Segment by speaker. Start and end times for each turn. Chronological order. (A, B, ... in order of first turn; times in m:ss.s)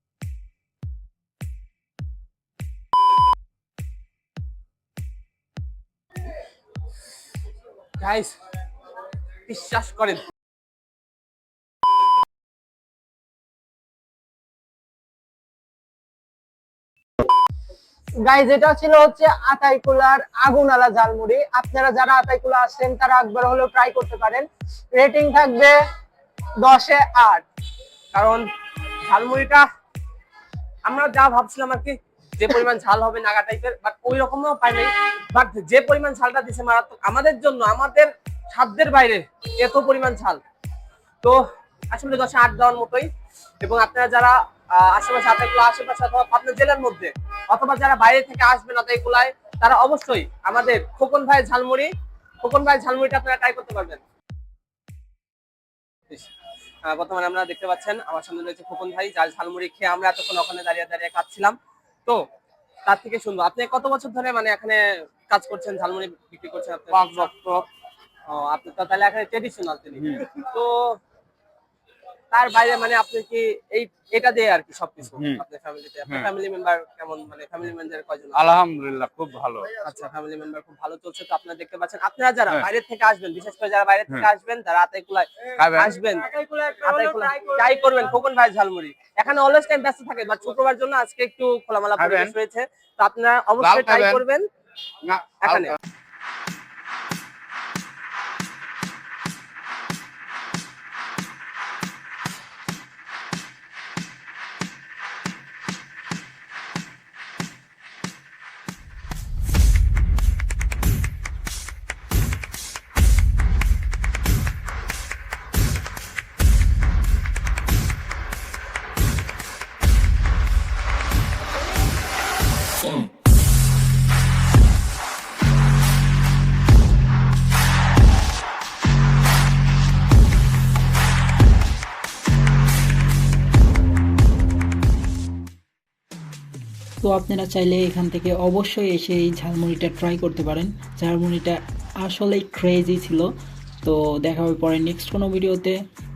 0:08.0-0:08.3 A
0:09.5-0:10.2 A
0:18.3-0:25.8 B
0:26.6-0:27.4 B
0:28.1-0:28.4 A
0:29.1-0:29.6 A
0:30.9-0:40.4 A
0:41.9-0:43.1 A
0:43.6-0:51.9 A
0:52.4-0:54.0 A
0:56.9-1:02.2 A
1:02.9-1:07.3 A
1:06.9-1:07.7 C
1:08.3-1:11.0 A
1:12.3-1:18.5 A
1:15.1-1:15.4 C
1:18.3-1:19.8 C
1:19.8-1:26.3 A
1:25.6-1:26.0 C
1:26.3-1:28.0 B
1:26.8-1:34.4 A
1:32.0-1:32.3 C
1:33.6-1:34.2 C
1:35.0-1:35.7 C
1:35.4-1:35.8 A
2:17.0-2:23.3 D
2:23.8-2:25.8 D